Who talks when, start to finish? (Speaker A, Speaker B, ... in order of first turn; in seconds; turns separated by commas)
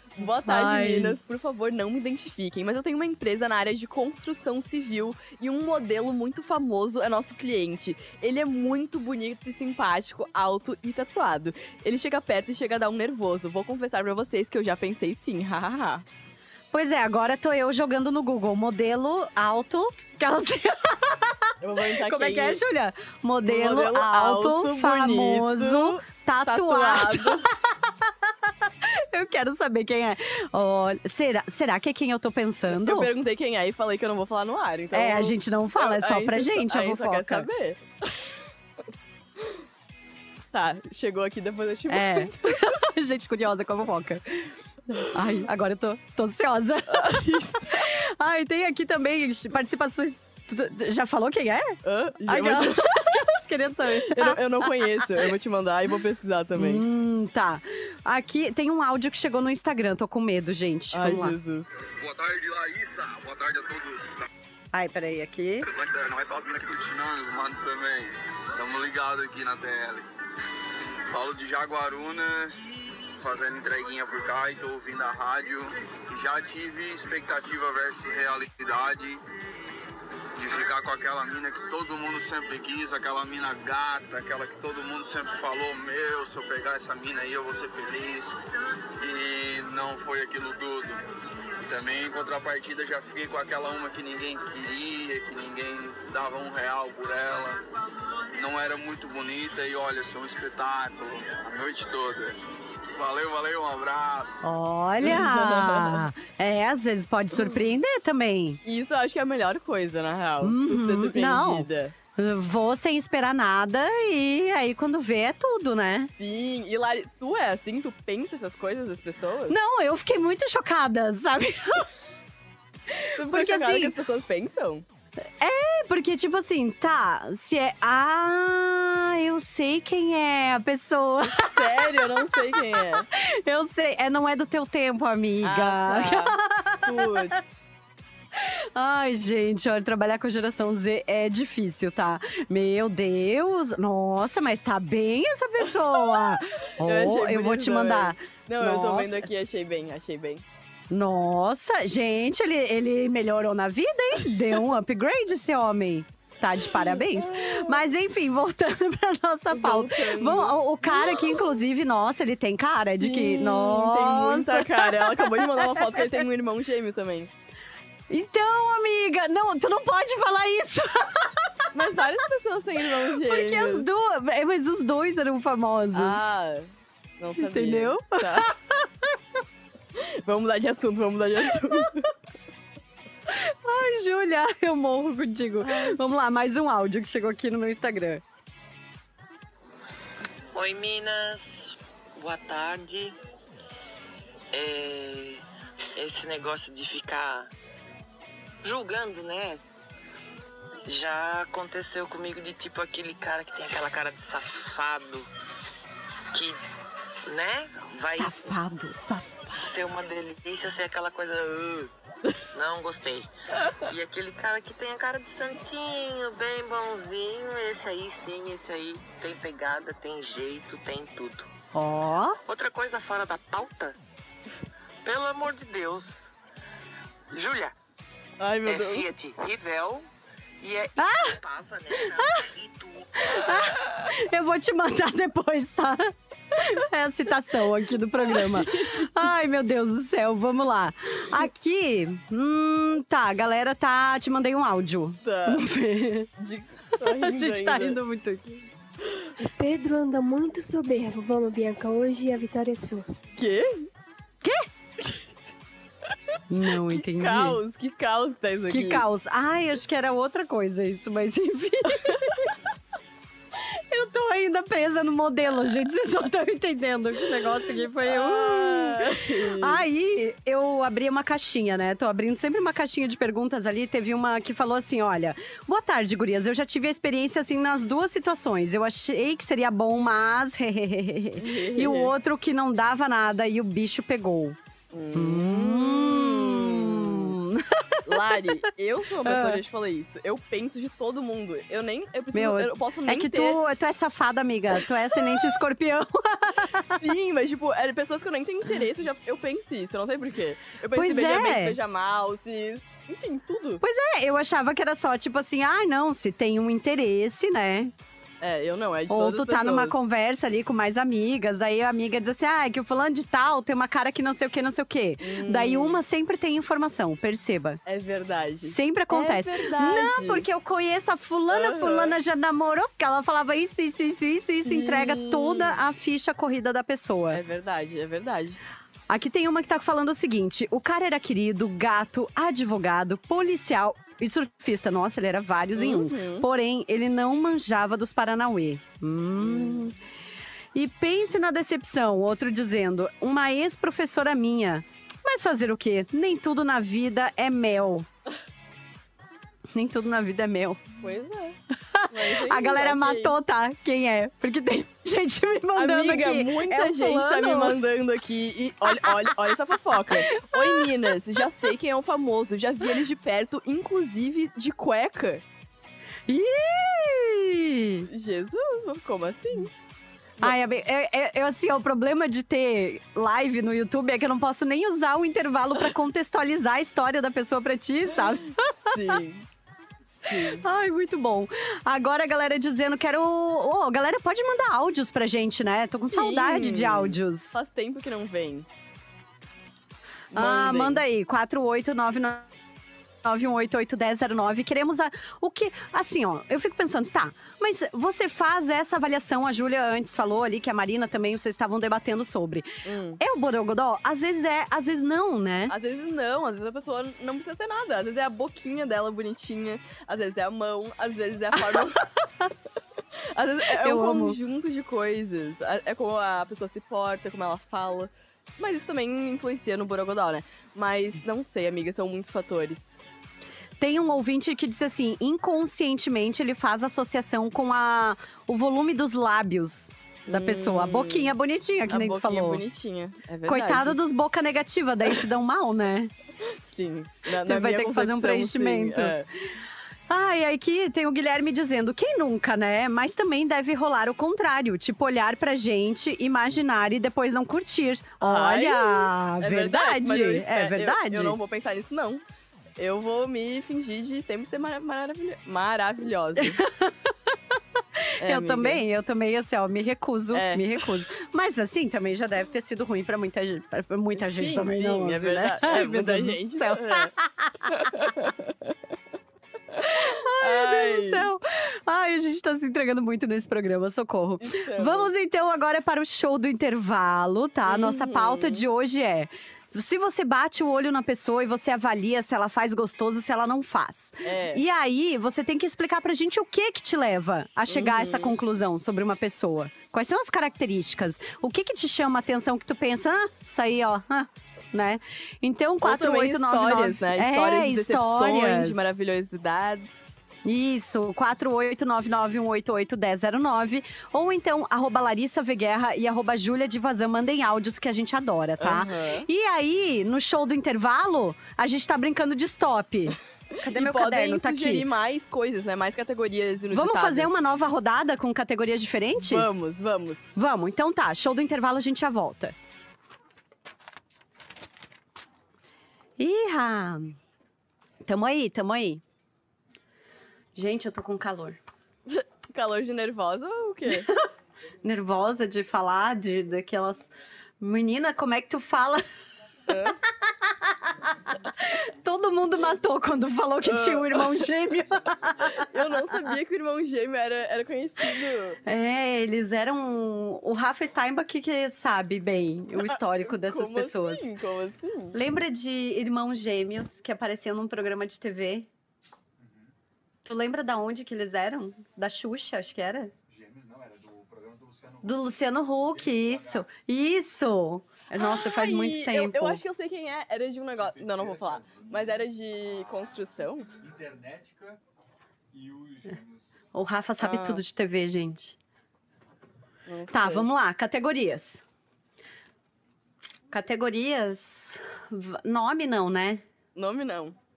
Speaker A: 0.2-16.1, Speaker B: 0.4-1.2, Speaker B: 16.7-33.1, Speaker A: 21.6-22.6, Speaker A: 23.4-27.5, Speaker A: 32.7-37.8, Speaker B: 34.9-37.5, Speaker A: 40.5-42.7, Speaker B: 41.9-44.5, Speaker B: 45.1-55.3, Speaker A: 46.9-47.9, Speaker A: 51.8-53.1, Speaker A: 53.9-56.9, Speaker B: 56.6-61.4, Speaker A: 60.9-61.7, Speaker C: 62.0-64.3, Speaker B: 64.7-65.7, Speaker C: 65.6-70.1, Speaker C: 71.1-72.6, Speaker C: 73.2-79.3, Speaker C: 80.4-88.4, Speaker C: 89.0-91.0, Speaker C: 91.6-97.6, Speaker C: 98.3-102.4, Speaker C: 102.9-104.5, Speaker B: 104.4-108.6, Speaker A: 105.0-106.0, Speaker A: 108.6-111.9, Speaker B: 110.4-116.1, Speaker A: 116.2-119.6, Speaker B: 119.5-121.9, Speaker B: 122.9-123.9, Speaker A: 123.2-124.8, Speaker B: 125.2-132.5, Speaker A: 131.3-133.1, Speaker B: 133.1-137.3, Speaker A: 135.4-137.6, Speaker B: 138.3-149.3, Speaker A: 146.8-150.4, Speaker B: 150.9-166.3, Speaker A: 156.8-157.8, Speaker A: 159.5-161.3, Speaker A: 163.0-167.3, Speaker B: 168.1-171.6, Speaker A: 171.7-173.9, Speaker B: 173.1-176.2, Speaker A: 175.9-178.5, Speaker B: 177.4-179.2, Speaker A: 179.9-182.1, Speaker B: 183.3-188.2, Speaker A: 185.6-186.0, Speaker D: 190.5-193.2, Speaker D: 194.5-195.4, Speaker D: 195.9-197.5, Speaker D: 198.6-199.6, Speaker D: 200.9-205.3, Speaker D: 206.3-206.6, Speaker D: 207.3-208.5, Speaker B: 208.1-209.8, Speaker D: 209.6-211.9, Speaker D: 212.5-221.5, Speaker B: 221.7-222.4, Speaker D: 222.5-223.9, Speaker D: 225.0-226.3, Speaker D: 227.3-227.7, Speaker A: 228.4-229.1, Speaker D: 228.7-230.1, Speaker D: 230.6-233.7, Speaker B: 231.0-231.4, Speaker B: 232.0-232.4, Speaker B: 233.3-246.3, Speaker A: 238.3-239.0, Speaker A: 245.2-245.6, Speaker A: 246.4-248.0, Speaker B: 247.0-248.7, Speaker E: 249.4-253.1, Speaker A: 253.4-253.9, Speaker B: 254.4-254.7, Speaker B: 256.5-257.6, Speaker A: 256.9-259.1, Speaker B: 258.7-262.6, Speaker A: 262.0-262.3, Speaker B: 263.6-284.6, Speaker A: 268.0-269.8, Speaker A: 281.4-282.1, Speaker A: 284.9-287.4, Speaker B: 285.1-288.4, Speaker A: 288.1-293.6, Speaker B: 289.2-289.6, Speaker B: 292.3-296.9, Speaker A: 296.8-303.8, Speaker B: 300.9-301.8, Speaker B: 303.8-307.9, Speaker A: 308.4-310.0, Speaker B: 309.1-317.8, Speaker A: 315.2-316.0, Speaker A: 317.9-320.4, Speaker B: 318.6-327.4, Speaker A: 321.5-322.1, Speaker A: 324.6-325.8, Speaker A: 327.3-328.6, Speaker B: 329.1-339.9, Speaker A: 335.8-336.5, Speaker A: 339.4-339.9, Speaker B: 340.7-348.1, Speaker B: 349.7-350.9, Speaker A: 351.0-351.6, Speaker B: 351.9-357.8, Speaker A: 352.1-353.4, Speaker A: 355.8-365.4, Speaker B: 358.9-359.5, Speaker B: 360.1-361.1, Speaker B: 366.3-368.1, Speaker A: 368.1-369.7, Speaker B: 370.4-379.1, Speaker A: 378.2-379.4, Speaker A: 380.1-380.6, Speaker B: 380.3-387.6, Speaker A: 386.1-388.7, Speaker A: 390.3-391.0, Speaker B: 390.3-392.5, Speaker B: 393.2-405.7, Speaker A: 402.9-403.2, Speaker A: 405.7-412.1, Speaker A: 413.3-423.0, Speaker B: 413.7-414.4, Speaker B: 423.8-432.6, Speaker A: 430.3-431.3, Speaker A: 431.9-434.0, Speaker B: 433.4-436.1, Speaker A: 436.4-439.3, Speaker B: 437.3-439.2, Speaker B: 440.1-451.4, Speaker A: 448.2-452.2, Speaker A: 452.8-456.6, Speaker B: 456.4-457.1, Speaker B: 458.0-467.8, Speaker A: 458.2-458.8, Speaker A: 460.3-460.6, Speaker A: 464.1-467.1, Speaker A: 467.7-468.7, Speaker A: 469.7-471.3, Speaker B: 469.9-498.9, Speaker A: 474.4-475.1, Speaker A: 477.6-478.6, Speaker A: 484.2-484.6, Speaker A: 487.7-488.4, Speaker A: 495.8-500.2, Speaker B: 500.4-514.9, Speaker A: 508.6-509.3, Speaker A: 513.5-517.4, Speaker B: 516.7-519.5, Speaker A: 519.2-520.3, Speaker B: 520.4-522.5, Speaker B: 526.2-527.2, Speaker B: 528.0-529.0, Speaker B: 530.5-531.6, Speaker A: 532.1-534.1, Speaker B: 533.9-534.2, Speaker B: 534.8-539.0, Speaker A: 539.7-540.0, Speaker B: 540.2-546.1, Speaker A: 543.6-544.4, Speaker A: 545.4-548.6, Speaker B: 548.6-554.3, Speaker A: 552.8-555.2, Speaker B: 555.1-558.7, Speaker F: 559.4-559.7, Speaker B: 560.2-563.1, Speaker F: 563.3-566.7, Speaker B: 565.0-569.6, Speaker A: 568.2-573.7, Speaker F: 570.8-572.2, Speaker F: 573.8-574.8, Speaker F: 575.5-576.5, Speaker B: 576.7-578.6, Speaker A: 577.2-577.6, Speaker A: 579.9-580.5, Speaker B: 580.1-581.6, Speaker B: 583.5-586.4, Speaker A: 586.8-587.4